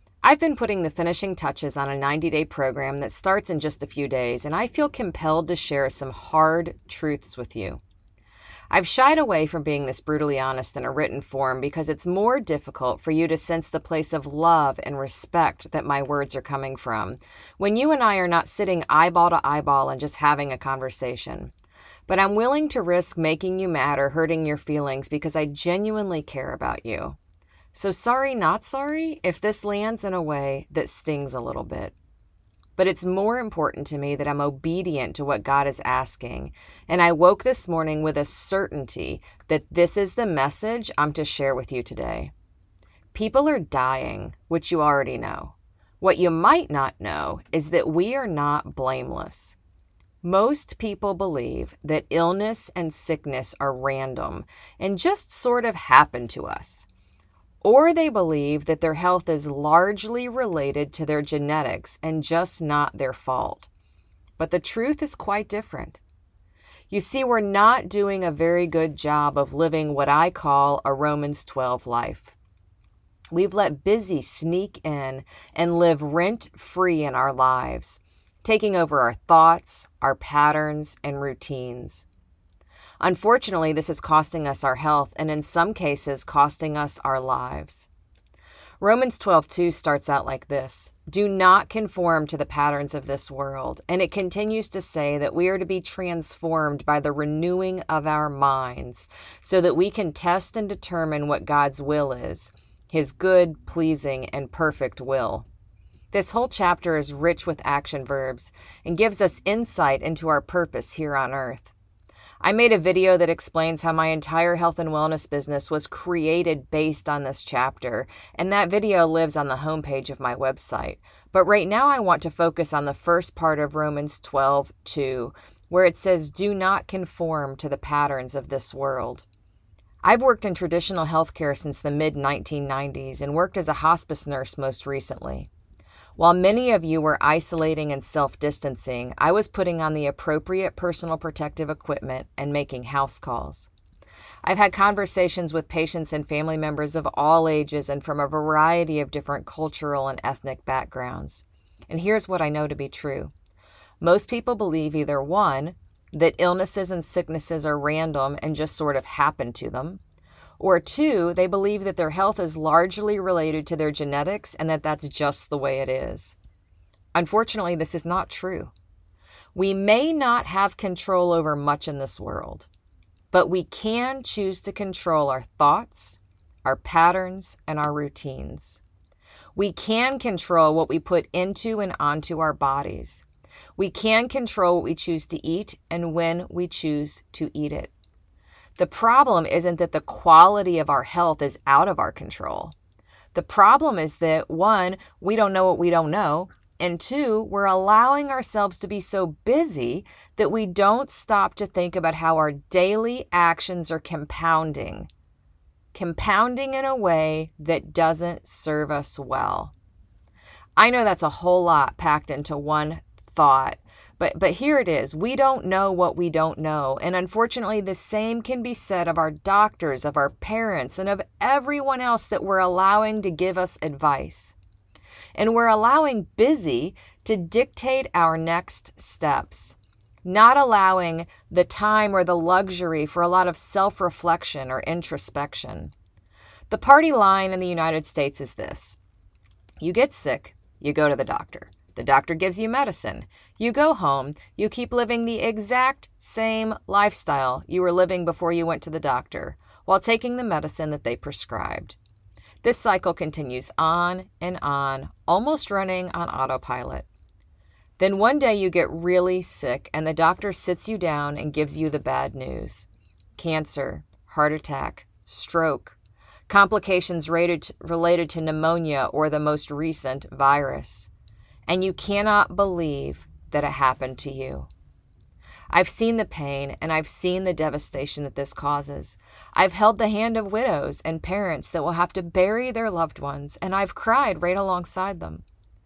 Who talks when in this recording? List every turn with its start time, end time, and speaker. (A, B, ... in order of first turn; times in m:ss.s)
0:00.2-0:07.8 A
0:08.7-0:21.5 A
0:22.1-0:27.2 A
0:27.7-0:31.9 A
0:32.8-0:42.3 A
0:43.1-0:49.6 A
0:50.2-0:56.9 A
0:57.6-1:03.7 A
1:04.4-1:06.0 A
1:06.9-1:12.3 A
1:13.3-1:22.0 A
1:23.0-1:27.9 A
1:28.8-1:45.4 A
1:46.1-1:51.7 A
1:52.4-2:09.2 A
2:10.0-2:15.5 A
2:16.2-2:23.7 A
2:24.4-2:33.3 A
2:34.0-2:40.0 A
2:40.6-2:46.4 A
2:47.1-2:48.7 A
2:49.5-2:52.7 A
2:53.3-2:58.8 A
2:59.5-3:03.2 A
3:03.8-3:07.9 A
3:08.8-3:12.7 A
3:13.3-3:25.1 A
3:25.9-3:29.7 A
3:30.8-3:44.6 A
3:45.3-3:55.9 A
3:56.7-3:59.0 A
3:59.8-4:12.0 A
4:12.6-4:17.1 A
4:18.0-4:31.1 A
4:31.7-4:34.7 A
4:35.7-4:45.4 A